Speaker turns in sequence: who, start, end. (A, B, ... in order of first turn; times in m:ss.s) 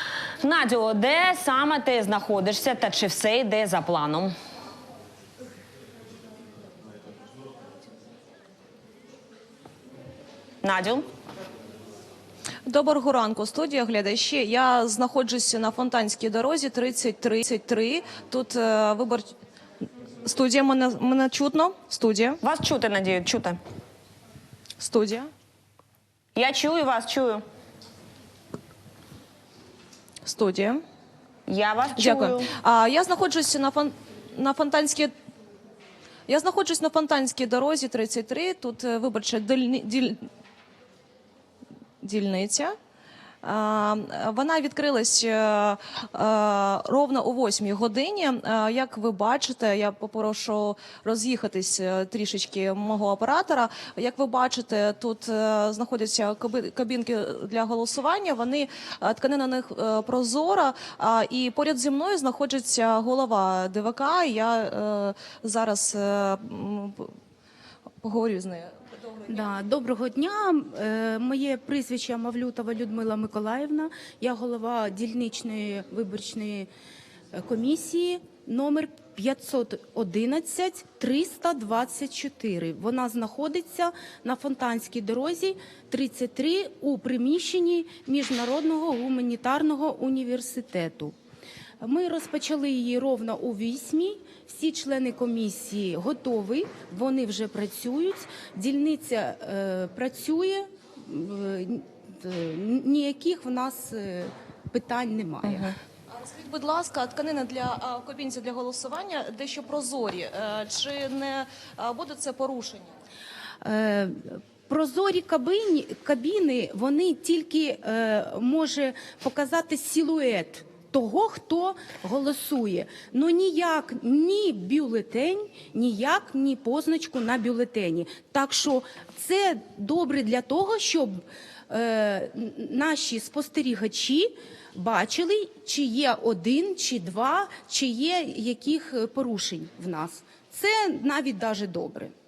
0:00.4-0:04.3 A
0:10.6-0:11.0 A
0:12.6-0:19.3 B
0:20.2-0:22.4 B
0:22.4-0:23.6 A
0:24.8-0:25.3 B
0:26.4-0:27.4 A
0:30.2-0:30.8 B
0:31.5-0:32.5 A
0:31.9-0:35.1 B
0:36.3-0:40.2 B
0:42.0-0:42.7 B
0:43.4-1:07.1 B
1:08.0-1:08.7 B
1:09.2-1:16.7 C
1:17.3-1:31.1 C
1:31.8-1:45.7 C
1:46.1-1:52.9 B
1:53.6-2:22.1 C